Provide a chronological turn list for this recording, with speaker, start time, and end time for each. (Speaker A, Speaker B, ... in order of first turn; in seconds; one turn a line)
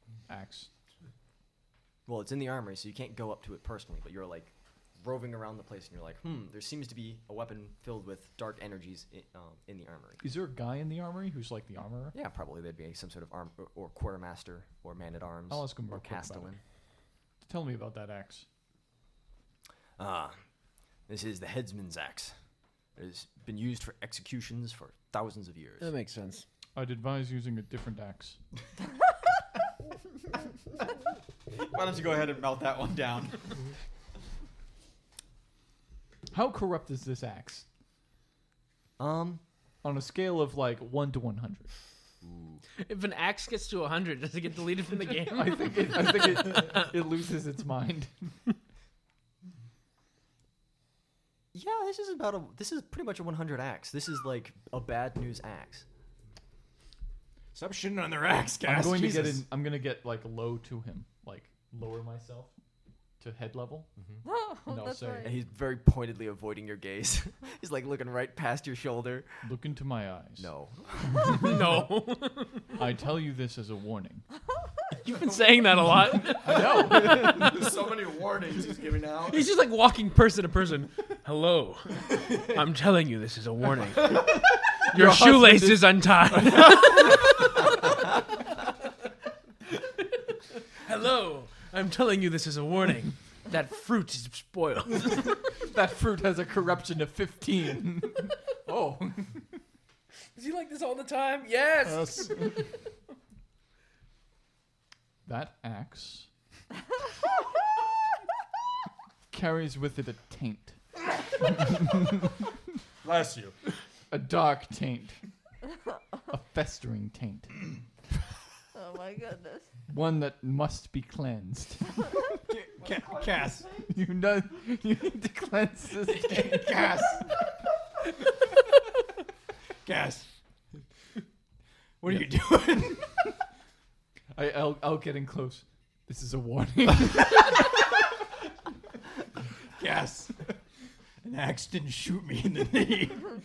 Speaker A: 0.3-0.7
Speaker B: 2.1-10.2
Speaker A: 10.2-12.2
Speaker B: 12.1-16.6
Speaker A: 15.5-16.6
Speaker A: 17.4-18.4
Speaker B: 20.0-20.4
Speaker B: 21.1-22.3
Speaker B: 22.9-25.9
Speaker C: 25.8-26.4
Speaker A: 26.8-28.4
Speaker D: 31.5-33.5
Speaker A: 36.3-37.6
Speaker B: 39.0-39.4
Speaker A: 39.8-41.7
Speaker B: 42.2-42.6
Speaker C: 42.8-46.9
Speaker A: 45.3-48.3
Speaker B: 51.5-55.9
Speaker E: 57.5-59.5
Speaker A: 58.6-62.5
Speaker A: 63.2-63.9
Speaker F: 64.2-65.4
Speaker A: 64.7-65.3
Speaker B: 65.2-69.4
Speaker A: 69.4-70.5
Speaker B: 70.4-71.5
Speaker C: 71.3-72.8
Speaker A: 72.8-74.2
Speaker C: 75.0-77.8
Speaker A: 76.3-77.4
Speaker G: 76.9-79.5
Speaker C: 79.3-87.5
Speaker A: 84.9-87.1
Speaker C: 90.8-95.5
Speaker A: 95.6-99.5
Speaker C: 100.3-102.6
Speaker G: 101.9-102.3
Speaker A: 105.3-106.3
Speaker A: 109.3-110.8
Speaker A: 111.4-112.1
Speaker G: 113.0-113.5
Speaker A: 114.1-115.2
Speaker A: 116.3-117.7
Speaker F: 118.7-119.7
Speaker A: 119.9-122.3
Speaker E: 122.5-123.7
Speaker A: 123.9-127.0
Speaker E: 126.0-127.3
Speaker E: 129.8-130.3
Speaker E: 132.0-133.1
Speaker A: 134.3-137.7
Speaker E: 139.8-140.4
Speaker E: 141.2-143.3